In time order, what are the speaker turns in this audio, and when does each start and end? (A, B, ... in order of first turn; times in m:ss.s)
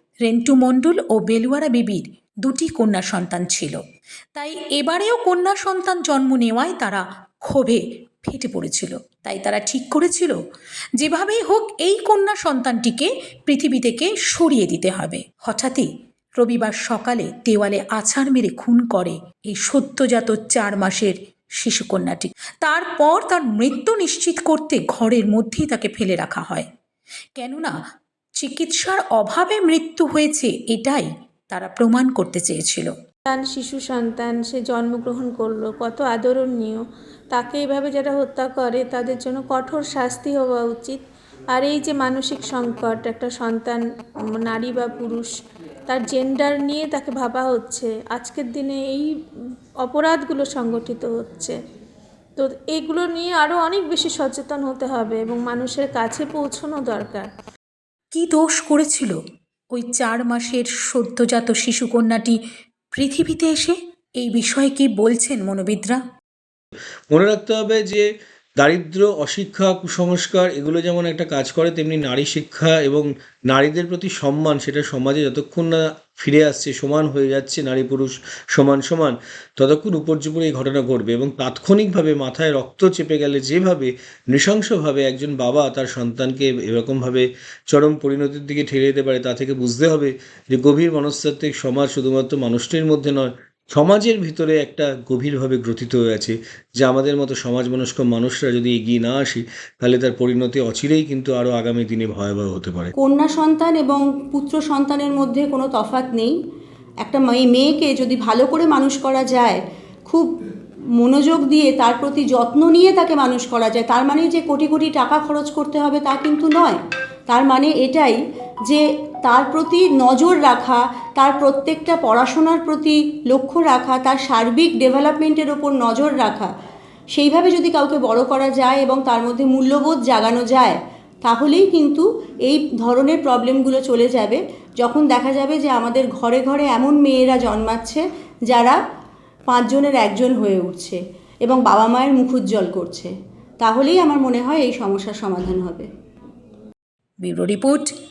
0:00.2-0:03.8 A
0:04.4-0:10.4 A
0:11.0-0:26.7 A
0:27.4-0:27.8 A
0:28.4-0:32.9 A
0:33.3-0:41.0 B
0:41.5-0:45.3 B
0:45.9-0:49.1 B
0:49.8-0:51.6 B
0:52.4-0:57.3 B
0:58.1-0:59.2 A
0:59.7-1:02.4 A
1:02.9-1:06.0 A
1:07.1-1:08.1 C
1:08.6-1:42.9 C
1:43.0-1:46.4 D
1:47.0-1:50.3 D
1:51.0-2:06.5 D
2:07.1-2:18.8 D
2:19.5-2:25.9 D
2:27.2-2:27.9 A